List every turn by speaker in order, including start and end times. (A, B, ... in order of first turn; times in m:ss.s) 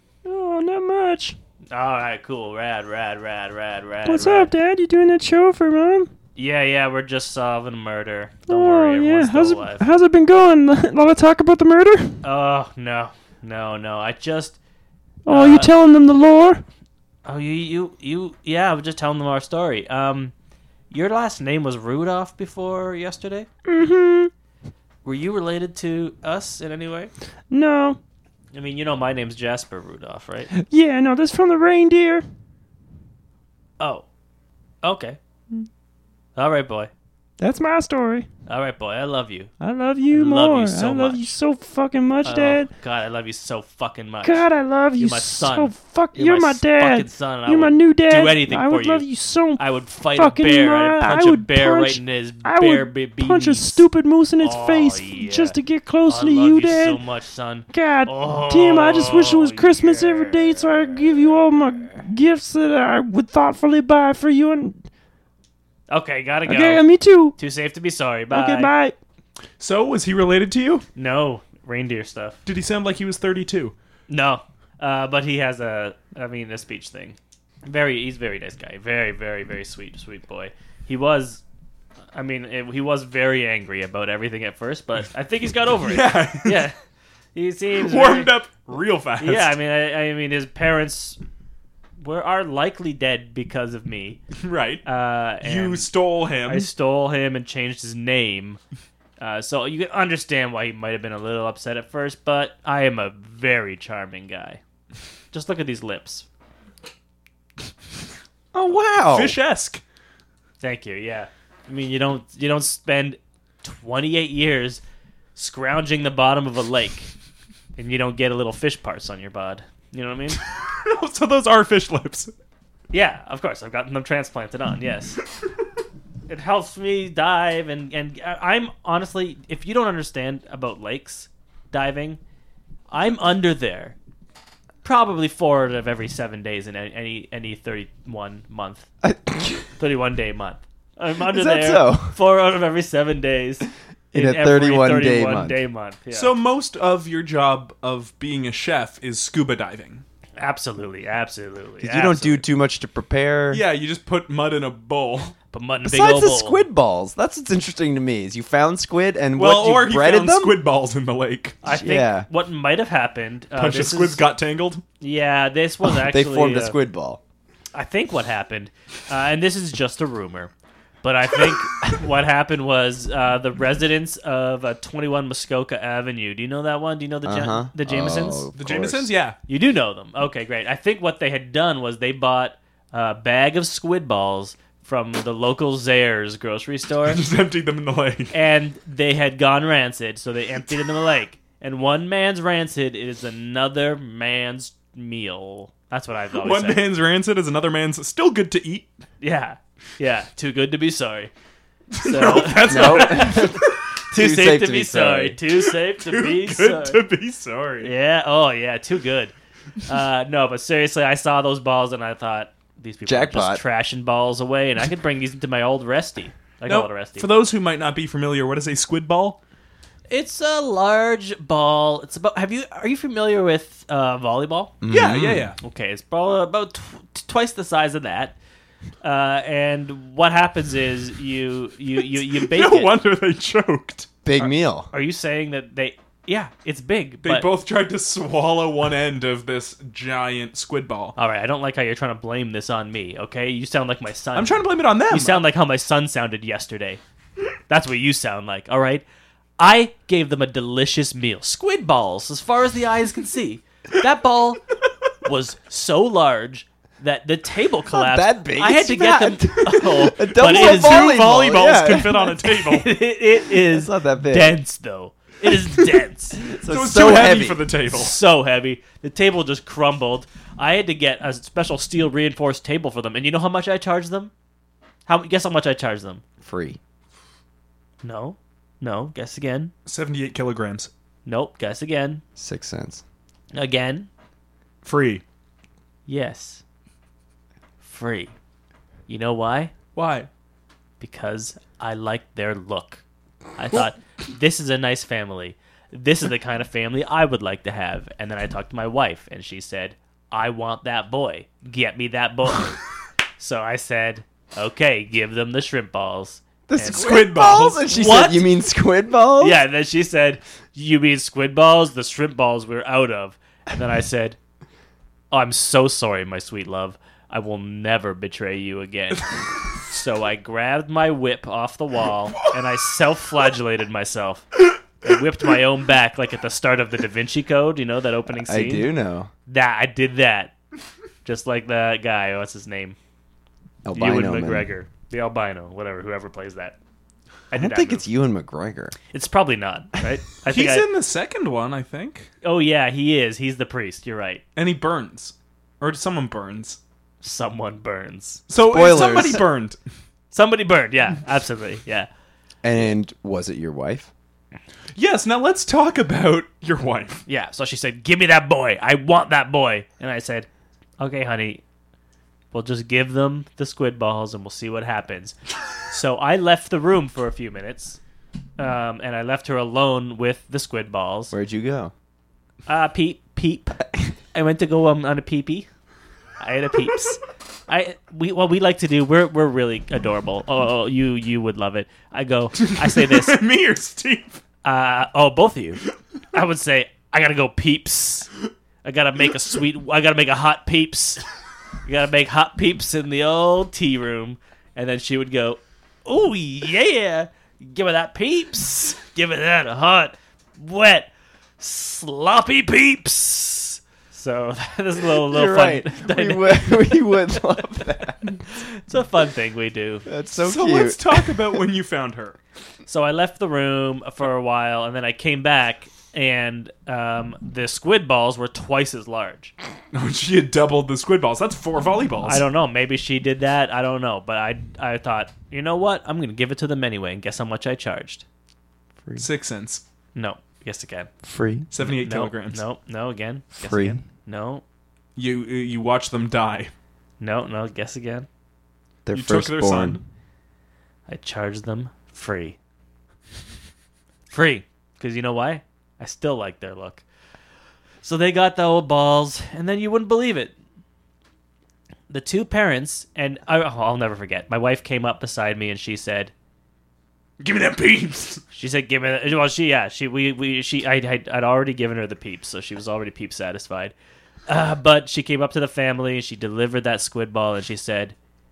0:00.2-0:01.4 A
0:01.7-0:04.5 B
0:04.0-0:06.1 A
0:06.4-0:09.8 B
0:08.5-0:12.2 A
0:12.2-0:14.6 B
0:15.2-0:16.6 A
0:15.3-0:15.7 B
0:17.2-0:20.3 B
0:20.9-0:23.5 B
0:23.7-0:24.3 A
0:25.0-0:27.1 B
0:27.5-0:28.0 A
0:28.5-0:30.5 B
0:30.5-0:32.2 A
0:33.8-0:34.0 B
0:34.8-0:35.2 B
0:36.4-0:36.9 B
0:37.4-0:38.3 A
0:38.5-0:39.5 B
0:39.6-0:42.7 A
0:40.1-0:41.3 B
0:42.2-0:44.4 B
0:44.2-0:57.0 A
0:45.0-0:53.8 B
0:54.4-1:01.1 B
0:57.7-1:04.8 A
1:05.9-1:06.8 B
1:06.4-1:07.4 A
1:07.4-1:08.7 B
1:08.3-1:08.9 A
1:09.6-1:10.8 C
1:10.9-1:12.4 B
1:12.4-1:13.7 C
1:14.1-1:21.4 B
1:22.1-1:26.7 B
1:25.8-1:26.6 C
1:27.3-1:28.3 B
1:27.8-1:29.5 C
1:29.2-1:31.2 B
1:32.0-1:34.2 B
1:34.4-1:34.8 C
1:34.8-1:35.9 B
1:35.4-1:36.7 C
1:36.4-1:38.6 B
1:39.2-1:44.6 B
1:45.3-1:46.2 B
1:48.5-1:49.3 D
1:49.0-1:49.8 C
1:50.6-1:54.8 B
1:55.4-1:57.1 B
1:57.8-2:00.4 B
2:00.4-2:02.3 C
2:02.9-2:05.2 B
2:06.3-2:12.2 B
2:12.9-2:14.0 B
2:14.8-2:18.9 B
2:19.0-2:19.6 D
2:19.8-2:26.3 B
2:21.3-2:22.1 D
2:24.1-2:25.6 D
2:26.1-2:30.0 C
2:30.4-2:32.4 B
2:31.8-2:33.6 D
2:33.5-2:35.3 C
2:35.5-2:36.6 B
2:35.9-2:40.5 D
2:39.3-2:41.6 C
2:41.6-2:44.2 B
2:41.8-2:42.3 D
2:43.6-2:44.8 C
2:45.0-2:46.8 B
2:46.0-2:47.2 D
2:47.7-2:50.5 B
2:51.0-2:58.5 B
2:57.2-2:59.1 D
2:58.5-2:59.4 C
2:59.5-3:07.2 B
3:07.0-3:08.3 C
3:08.3-3:16.8 B
3:16.4-3:18.9 C
3:19.2-3:21.3 B
3:21.9-3:23.6 C
3:22.0-3:27.0 B
3:22.7-3:25.4 D
3:25.6-3:27.9 C
3:27.8-3:37.3 B
3:33.0-3:33.6 D
3:36.6-3:39.4 C
3:40.1-3:44.8 B
3:44.8-3:45.5 D
3:44.9-3:45.6 C
3:45.6-3:48.4 B
3:49.0-3:52.9 B
3:52.3-3:54.1 C
3:54.2-3:54.9 D
3:54.9-3:57.5 B
3:57.2-4:01.2 C
4:01.2-4:07.0 B
4:04.3-4:05.4 C
4:07.7-4:09.0 B
4:09.6-4:14.6 B
4:15.2-4:21.5 B
4:17.9-4:22.1 D
4:20.3-4:22.9 C
4:22.4-4:26.4 B
4:23.7-4:24.6 D
4:26.5-4:28.1 C
4:26.5-4:27.6 D
4:27.9-4:34.3 B
4:35.0-4:36.2 B
4:36.4-4:36.8 D
4:38.0-4:39.7 B
4:39.8-4:40.9 C
4:41.2-4:42.2 B
4:42.4-4:43.0 D
4:43.5-4:44.1 B
4:44.8-4:45.2 C
4:46.1-4:46.6 B
4:47.8-4:48.3 B
4:49.1-4:49.7 B
4:49.9-4:50.3 C
4:51.0-4:53.0 B
4:53.6-5:02.8 B
5:03.4-5:08.5 B
5:06.7-5:09.6 D
5:06.9-5:07.8 C
5:09.4-5:14.4 B
5:15.3-5:24.5 B
5:25.0-5:28.9 B
5:28.4-5:29.3 D
5:29.5-5:30.5 B
5:31.2-5:33.0 B
5:33.8-5:34.7 D
5:33.9-5:36.8 B
5:37.5-5:38.1 B
5:37.5-5:38.9 D
5:39.1-5:40.9 B
5:40.5-5:42.3 C
5:42.4-5:44.4 B
5:44.6-5:46.8 C
5:47.2-5:48.4 B
5:48.5-5:49.8 C
5:48.7-5:49.4 D
5:50.3-5:52.1 B
5:52.6-5:54.1 D
5:54.9-5:57.2 C
5:57.3-6:00.5 B
6:01.0-6:01.6 B
6:02.5-6:05.4 B
6:05.9-6:08.0 B
6:08.6-6:11.3 B
6:11.3-6:11.9 D
6:12.7-6:15.7 B
6:16.4-6:23.4 B
6:22.6-6:24.4 C
6:24.6-6:28.3 B
6:28.8-6:31.2 B
6:31.8-6:47.3 B
6:45.3-6:48.4 D
6:48.5-6:50.0 B
6:50.0-6:51.2 D
6:50.4-6:52.4 C
6:52.8-6:59.5 B
6:59.9-7:02.4 C
7:02.2-7:08.2 B
7:09.2-7:09.8 C
7:10.1-7:11.1 B
7:11.2-7:11.7 D
7:11.7-7:12.6 C
7:11.8-7:14.6 B
7:13.6-7:14.0 D
7:15.2-7:16.7 C
7:17.2-7:18.3 B
7:19.0-7:20.0 D
7:19.1-7:20.0 C
7:21.1-7:22.6 B
7:24.3-7:27.0 B
7:28.0-7:30.5 B
7:32.1-7:36.3 B
7:37.4-7:38.4 C
7:38.5-7:43.9 B
7:44.5-7:48.1 B